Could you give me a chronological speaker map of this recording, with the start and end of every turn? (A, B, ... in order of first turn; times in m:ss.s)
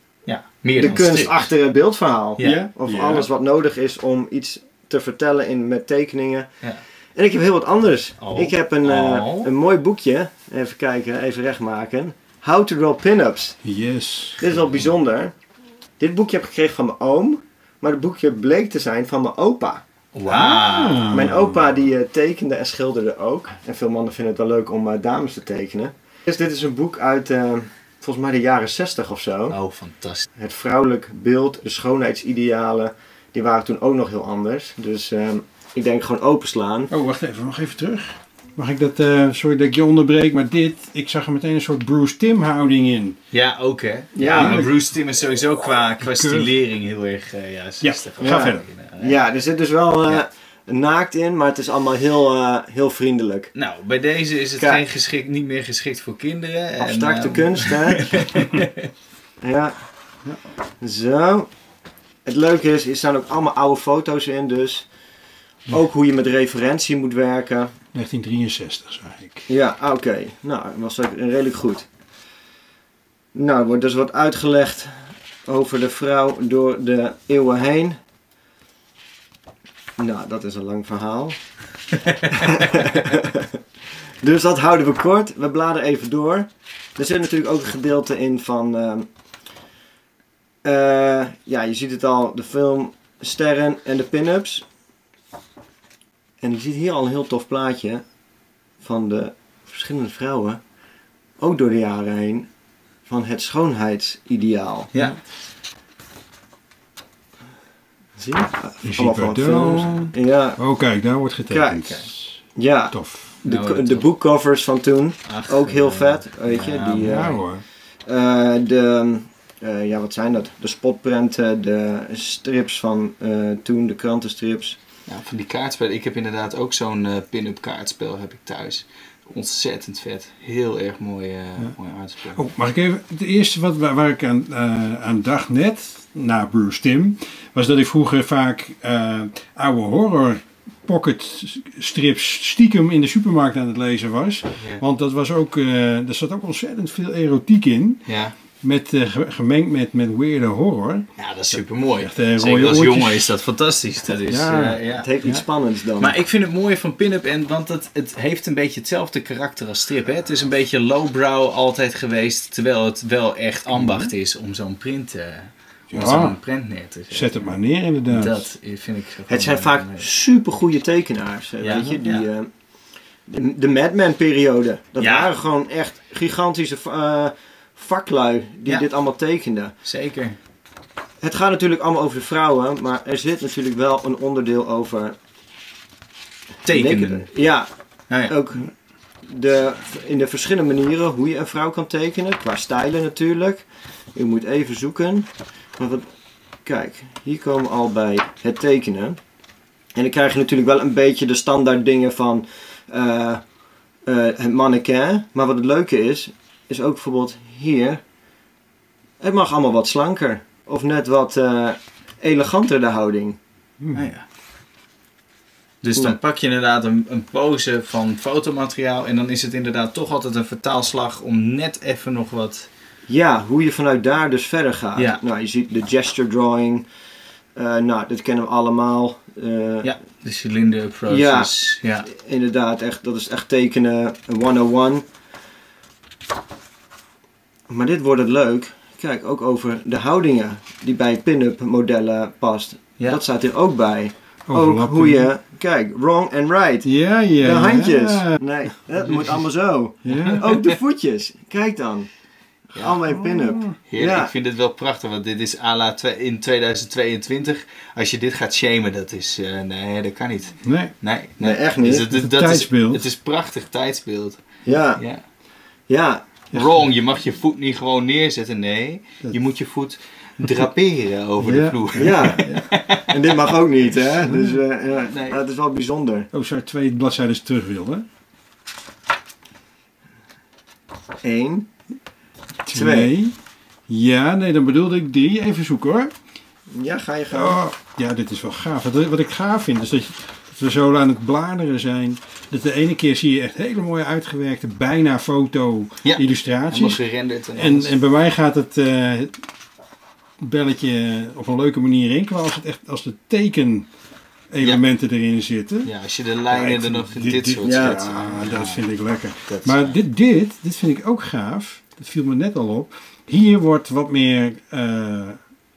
0:00.3-0:01.5 A
0:00.8-0:06.5 B
0:02.4-0:03.3 C
0:07.2-0:13.6 B
0:08.2-0:09.5 A
0:13.6-0:14.6 C
0:14.4-0:15.3 B
0:16.0-0:19.8 B
0:20.1-0:21.1 A
0:20.3-0:21.6 C
0:21.1-0:29.6 B
0:29.5-0:30.3 A
0:30.4-0:36.9 B
0:36.9-0:43.2 C
0:43.3-0:49.2 A
0:44.2-0:44.6 B
0:44.2-0:44.7 C
0:46.0-0:46.5 C
0:47.8-0:48.7 C
0:48.2-0:53.5 B
0:53.5-0:58.9 A
0:56.8-0:58.1 B
0:59.4-0:59.8 B
1:00.8-1:01.5 B
1:02.3-1:04.9 B
1:05.7-1:07.7 B
1:07.9-1:09.5 C
1:09.5-1:11.9 B
1:13.3-1:18.0 B
1:20.0-1:21.4 B
1:22.3-1:23.4 B
1:24.2-1:29.1 B
1:30.6-1:34.7 B
1:36.4-1:38.0 B
1:38.8-1:40.6 B
1:41.4-1:42.5 B
1:43.1-1:44.9 B
1:48.2-1:50.6 B
1:48.8-1:53.3 C
1:51.5-1:51.8 B
1:51.8-1:52.1 A
1:52.6-1:57.4 B
1:53.4-1:54.1 A
1:55.2-1:57.2 A
1:57.0-1:57.6 C
1:58.0-2:04.8 B
2:05.1-2:12.4 A
2:12.3-2:28.0 C
2:28.0-2:28.4 A
2:28.6-2:33.4 C
2:31.2-2:35.2 A
2:34.3-2:35.4 C
2:34.9-2:36.1 B
2:36.0-2:47.6 A
2:43.7-2:44.1 C
2:45.9-2:46.4 C
2:47.1-2:48.4 C
2:48.1-2:50.1 A
2:49.3-2:52.5 B
2:51.6-2:52.3 A
2:53.3-2:59.7 B
2:55.0-2:55.3 A
2:59.8-3:00.4 A
3:01.2-3:05.1 B
3:06.6-3:07.3 A
3:06.7-3:07.7 B
3:08.1-3:08.4 A
3:08.2-3:08.7 B
3:09.2-3:16.1 B
3:16.6-3:19.2 B
3:19.9-3:23.4 B
3:24.0-3:28.0 B
3:29.2-3:33.4 B
3:33.8-3:34.1 C
3:33.9-3:34.2 A
3:35.8-3:42.7 A
3:43.1-3:46.9 B
3:45.0-3:45.2 A
3:47.6-3:49.9 B
3:49.8-3:52.1 A
3:51.1-3:51.5 B
3:52.0-3:55.0 B
3:57.7-4:06.9 B
4:04.5-4:05.3 C
4:06.8-4:08.3 C
4:07.4-4:12.1 B
4:09.0-4:09.5 A
4:10.0-4:10.4 C
4:10.0-4:10.7 A
4:12.7-4:13.0 A
4:12.7-4:14.3 B
4:13.1-4:13.8 C
4:13.7-4:24.4 A
4:20.6-4:20.9 C
4:21.4-4:22.1 B
4:22.1-4:23.0 C
4:24.6-4:25.0 B
4:25.0-4:25.2 A
4:25.9-4:26.4 B
4:26.5-4:26.8 C
4:26.5-4:34.0 A
4:31.4-4:32.6 C
4:31.9-4:36.3 B
4:34.9-4:35.4 A
4:36.3-4:38.0 C
4:41.2-4:41.7 B
4:42.7-4:43.4 C
4:42.7-4:43.1 B
4:43.9-4:46.1 C
4:46.7-4:47.6 B
4:47.3-4:57.0 C
4:56.0-4:57.9 A
4:57.5-4:59.4 C
5:00.4-5:03.9 C
5:04.5-5:05.9 C
5:05.8-5:08.9 A
5:06.5-5:15.4 C
5:07.6-5:08.0 B
5:09.5-5:10.0 A